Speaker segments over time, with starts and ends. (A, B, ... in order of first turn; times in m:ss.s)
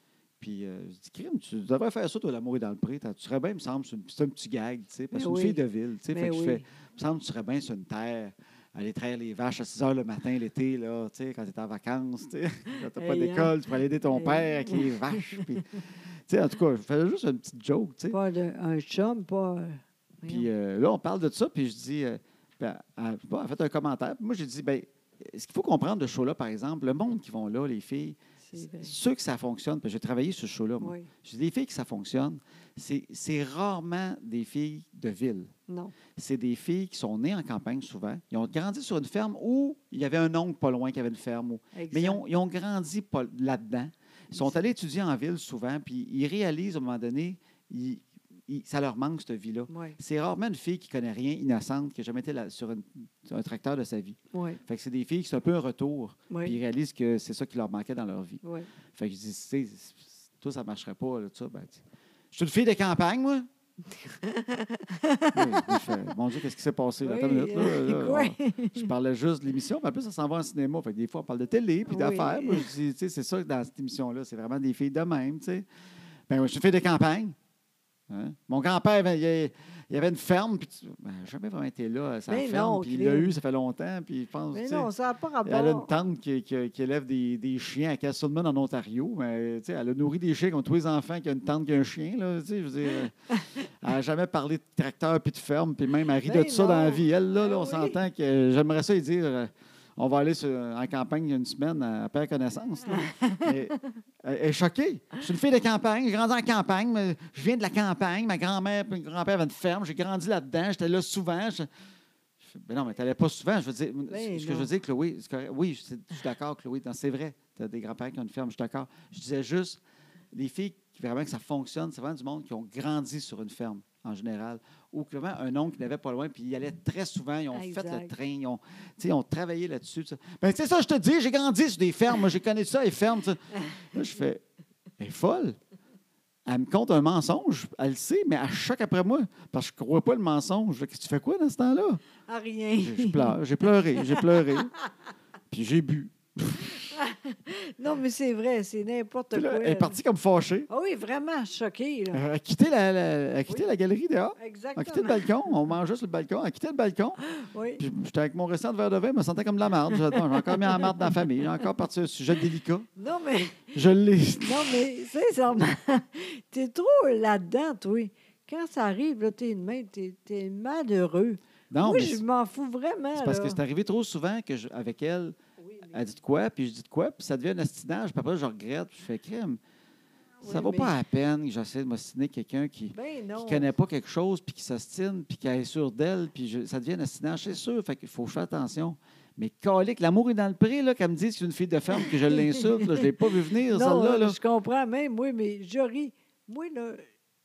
0:00.4-0:18.2 A
0:05.1-0:06.6 B
0:12.9-0:13.6 B
0:14.1-0:15.6 B
0:18.1-0:20.5 B
0:20.2-0:35.5 A
0:28.4-0:29.0 B
0:30.8-0:31.1 B
0:35.7-0:36.0 B
0:36.1-0:58.4 A
0:41.7-0:42.2 B
0:44.3-0:44.6 B
0:49.7-0:50.0 B
0:54.3-0:54.6 B
0:56.3-0:56.6 B
0:58.4-0:58.7 B
0:58.9-1:03.5 A
1:03.9-1:06.0 B
1:05.3-1:15.6 A
1:07.0-1:08.9 B
1:11.9-1:12.7 B
1:16.3-1:17.4 A
1:18.1-1:24.9 A
1:22.3-1:23.3 B
1:24.5-1:25.9 B
1:25.4-1:33.1 A
1:33.8-1:51.7 A
1:36.2-1:38.0 B
1:42.9-1:43.5 B
1:52.4-1:59.8 A
1:54.1-1:54.7 B
2:00.3-2:14.4 A
2:07.5-2:08.2 B
2:15.0-2:15.6 A
2:16.4-2:22.0 A
2:22.3-2:24.9 B
2:22.8-2:24.7 A
2:25.5-2:26.8 A
2:26.6-2:30.0 B
2:29.3-2:30.7 A
2:30.7-2:32.2 B
2:32.1-2:37.2 A
2:34.4-2:35.5 B
2:37.3-2:37.8 B
2:37.8-2:42.9 A
2:39.9-2:41.1 B
2:43.0-2:43.8 B
2:43.7-2:44.8 A
2:44.4-2:53.6 B
2:51.7-2:52.2 A
2:53.1-2:55.4 A
2:55.6-2:56.0 B
2:55.9-2:59.6 A
3:00.4-3:00.9 B
3:00.4-3:14.4 A
3:02.9-3:03.7 B
3:12.0-3:13.1 B
3:13.7-3:17.1 B